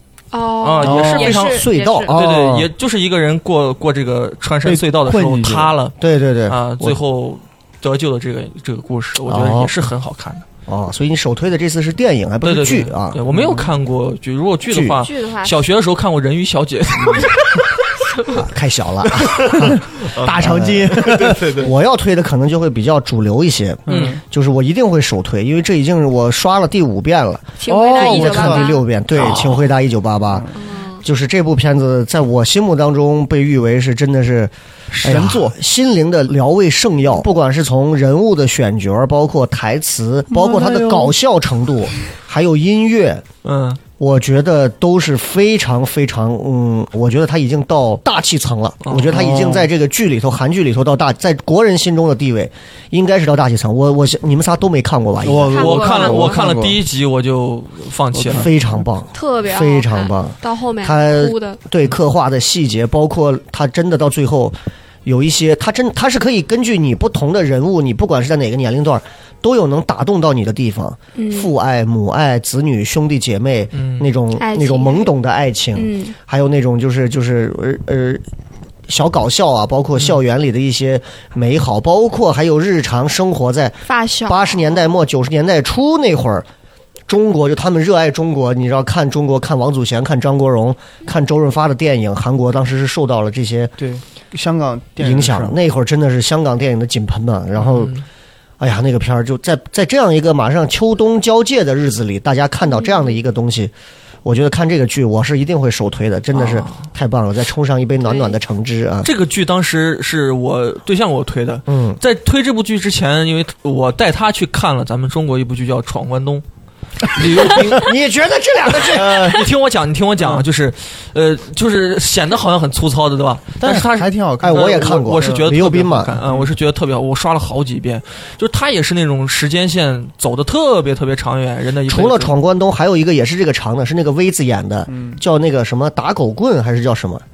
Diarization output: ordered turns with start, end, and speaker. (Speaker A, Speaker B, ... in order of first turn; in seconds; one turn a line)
Speaker A: 0.3-2.1
Speaker B: 0.6-6.0
Speaker C: 0.8-1.4
Speaker D: 1.5-2.7
Speaker C: 4.7-5.7
Speaker D: 6.0-7.0
Speaker B: 6.5-10.4
Speaker D: 9.3-9.7
Speaker D: 10.7-13.2
Speaker B: 12.4-17.7
Speaker C: 13.3-13.7
Speaker D: 14.7-15.0
Speaker A: 15.0-15.6
Speaker A: 18.0-18.4
Speaker D: 18.3-30.5
Speaker B: 19.1-20.4
Speaker C: 19.5-21.7
Speaker B: 20.9-21.7
Speaker B: 23.9-24.2
Speaker C: 23.9-24.2
Speaker A: 27.6-28.8
Speaker C: 27.7-28.7
Speaker B: 29.1-29.7
Speaker A: 30.6-31.1
Speaker D: 31.0-43.2
Speaker C: 34.9-35.5
Speaker C: 40.3-41.1
Speaker B: 43.4-43.8
Speaker D: 44.0-55.7
Speaker B: 48.8-49.6
Speaker C: 49.1-49.6
Speaker C: 55.2-56.8
Speaker A: 55.5-56.5
Speaker B: 55.6-58.5
Speaker C: 58.1-58.5
Speaker D: 58.3-78.2
Speaker A: 59.1-61.6
Speaker A: 71.2-71.5
Speaker B: 73.7-74.1
Speaker A: 74.4-75.1
Speaker A: 75.8-76.2
Speaker D: 78.9-86.5
Speaker A: 83.9-84.7
Speaker D: 87.1-93.7
Speaker C: 93.8-95.5
Speaker D: 95.0-98.0
Speaker B: 97.6-98.0
Speaker D: 98.6-103.7
Speaker A: 102.7-103.0
Speaker D: 104.2-109.1
Speaker B: 106.3-106.9
Speaker A: 108.0-108.3
Speaker B: 109.0-116.4
Speaker D: 111.7-112.0
Speaker B: 117.0-117.9
Speaker D: 117.2-119.4
Speaker C: 117.4-117.7
Speaker B: 118.8-132.3
Speaker C: 118.9-119.4
Speaker C: 123.6-125.5
Speaker D: 124.4-126.2
Speaker D: 131.9-137.2
Speaker C: 134.9-135.2